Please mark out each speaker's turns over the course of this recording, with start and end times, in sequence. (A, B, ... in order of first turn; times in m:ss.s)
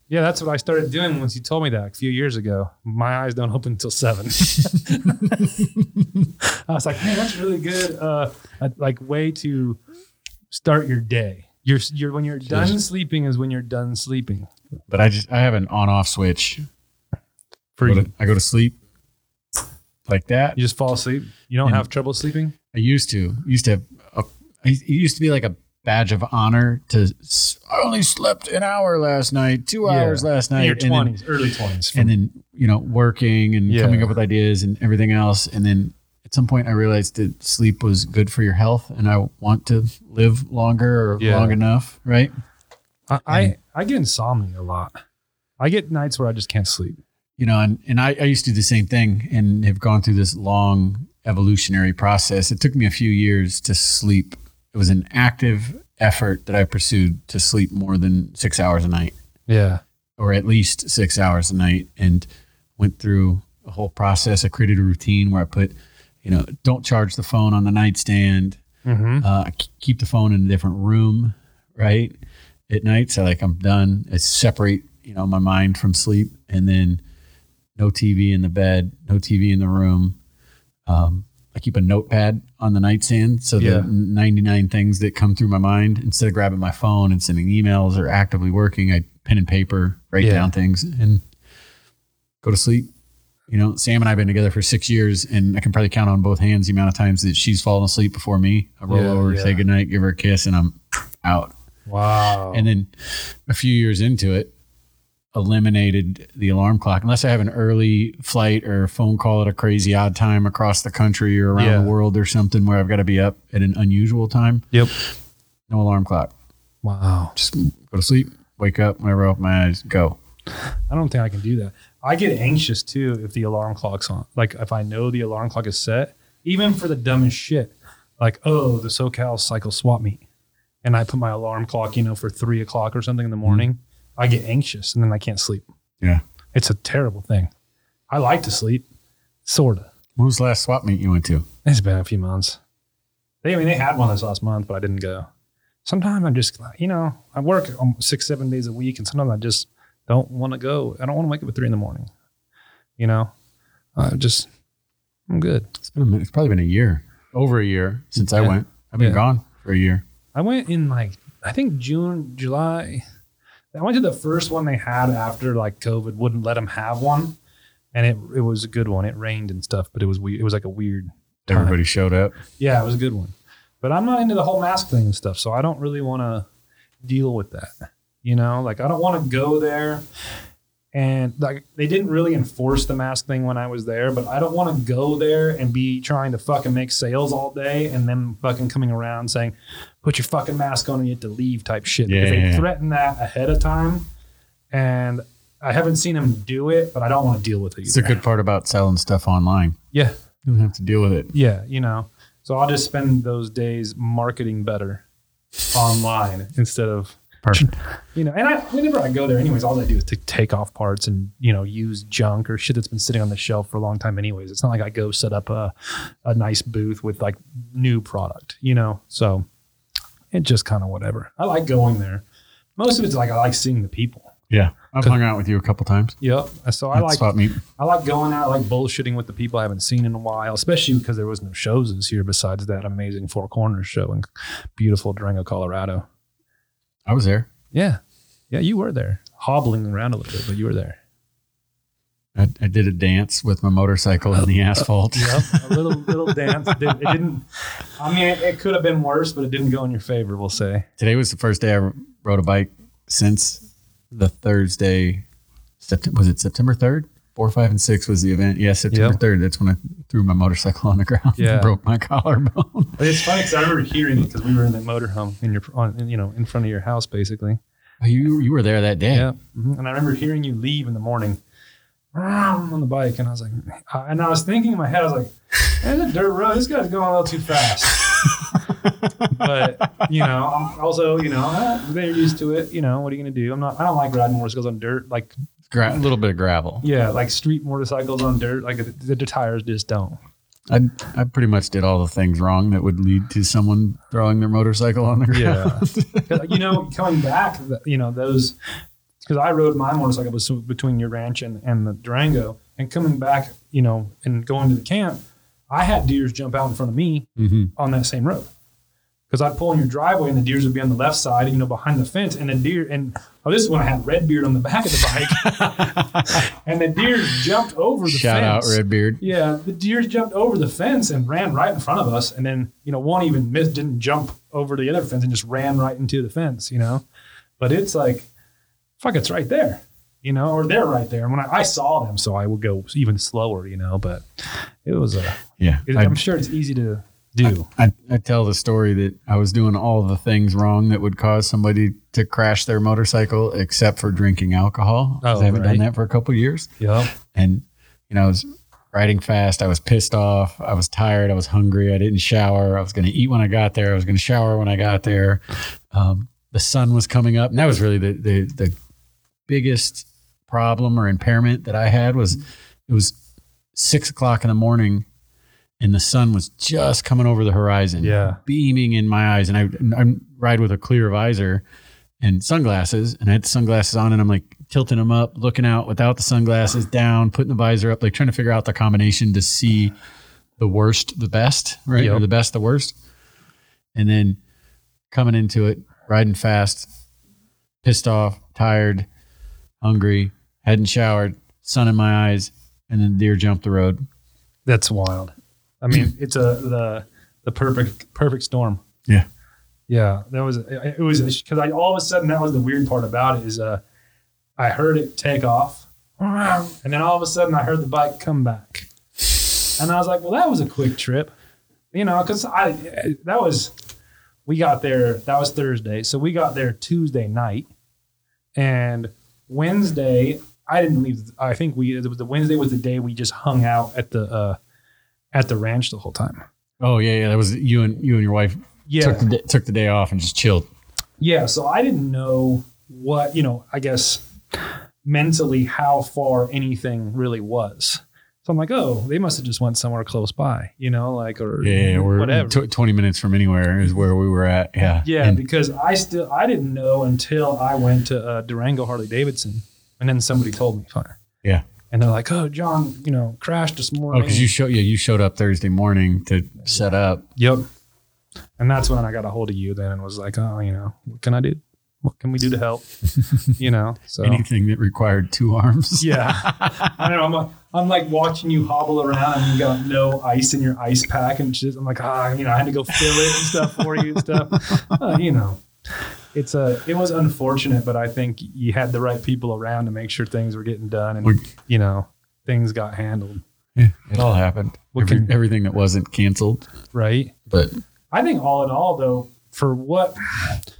0:00.1-0:05.5 A
0:06.4-0:09.8 A
0:10.5-0:14.5 A
0:12.4-0:12.8 B
0:14.9-0:16.6 B
0:17.8-0:18.1 A
0:17.8-0:18.8 B
0:20.0-0:20.6 B
0:20.6-0:22.6 A
0:22.7-0:31.1 B
0:29.8-0:32.1 A
0:31.9-0:42.3 B
0:33.7-0:34.1 A
0:41.2-0:41.6 A
0:43.1-0:45.0 A
0:43.3-0:43.5 B
0:45.6-0:47.0 A
0:47.4-0:59.1 B
0:59.5-0:59.8 A
1:00.2-1:02.2 B
1:02.8-1:05.7 B
1:06.2-1:08.6 B
1:08.8-1:09.2 A
1:09.2-1:12.2 B
1:12.7-1:17.0 B
1:17.8-1:20.2 B
1:20.8-1:31.2 B
1:23.6-1:23.9 A
1:30.2-1:30.5 A
1:32.4-1:32.9 B
1:33.5-1:41.5 B
1:38.9-1:39.6 A
1:41.9-1:42.7 A
1:42.5-1:42.9 B
1:43.4-1:44.5 B
1:45.3-1:54.8 B
1:51.5-1:51.9 A
1:55.7-1:56.3 B
1:56.8-1:57.4 A
1:57.4-2:00.2 B
2:00.9-2:10.2 A
2:10.8-2:15.6 A
2:16.5-2:17.5 A
2:18.1-2:18.8 A
2:19.4-2:19.9 A
2:20.2-2:21.4 B
2:21.6-2:22.6 A
2:23.4-2:25.3 A
2:25.8-2:32.1 A
2:33.0-2:33.3 A
2:34.0-2:34.5 A
2:35.3-2:35.7 A
2:35.8-2:40.0 B
2:38.2-2:39.2 A
2:40.3-2:43.0 A
2:43.7-2:47.4 A
2:47.9-2:51.8 A
2:51.4-2:52.4 B
2:52.6-2:56.4 A
2:57.0-3:00.0 A
3:00.9-3:14.1 A
3:12.0-3:12.7 B
3:14.7-3:18.2 A
3:17.9-3:19.8 B
3:20.4-3:21.3 B
3:21.3-3:25.0 A
3:25.7-3:39.4 A
3:40.3-3:42.2 A
3:42.8-3:44.3 A
3:44.5-3:46.2 B
3:46.2-3:56.0 A
3:46.9-3:47.6 B
3:57.0-3:57.5 B
3:57.7-3:58.0 A
3:58.5-4:01.0 A
4:02.3-4:07.1 B
4:05.1-4:10.8 A
4:11.0-4:15.2 B
4:15.8-4:23.4 B
4:18.9-4:19.2 A
4:21.4-4:21.7 A
4:23.0-4:27.6 A
4:28.0-4:29.3 B
4:29.1-4:31.4 A
4:32.1-4:38.1 A
4:38.8-4:39.5 B
4:39.3-4:45.3 A
4:45.7-4:46.8 B
4:46.8-4:50.2 A
4:50.7-4:56.8 B
4:55.3-4:58.5 A
4:59.2-5:08.5 A
5:07.4-5:07.7 B
5:09.3-5:27.0 A
5:15.1-5:16.4 B
5:18.0-5:19.2 B
5:27.6-5:28.3 A
5:29.0-5:37.7 A
5:35.6-5:36.2 B
5:37.4-5:58.7 B
5:45.2-5:45.8 A
5:46.8-5:47.1 A
5:59.5-6:03.2 B
6:03.7-6:05.0 B
6:05.8-6:11.6 B
6:08.0-6:08.4 A
6:12.2-6:19.9 B
6:20.6-6:22.9 B
6:22.0-6:22.2 A
6:23.9-6:24.4 B
6:25.1-6:26.9 B
6:27.8-6:29.0 B
6:29.8-6:34.0 B
6:34.6-6:38.8 A
6:39.9-6:43.8 A
6:44.6-6:48.9 A
6:49.8-6:51.3 A
6:51.9-6:53.7 A
6:54.4-6:57.7 A
6:58.6-7:04.6 A
7:05.3-7:06.4 A
7:06.8-7:10.7 B
7:08.9-7:09.2 A
7:11.2-7:14.2 A
7:15.0-7:22.6 A
7:21.6-7:25.4 B
7:25.0-7:31.2 A
7:31.9-7:34.5 A
7:34.1-7:37.2 B
7:37.4-7:37.6 A
7:38.6-7:42.9 A
7:43.5-7:44.4 A
7:44.2-7:47.0 B
7:46.0-7:55.6 A
7:53.1-7:54.8 B
7:56.3-8:03.4 A
8:03.8-8:06.7 B
8:04.9-8:05.3 A
8:06.9-8:07.3 A
8:08.1-8:10.6 A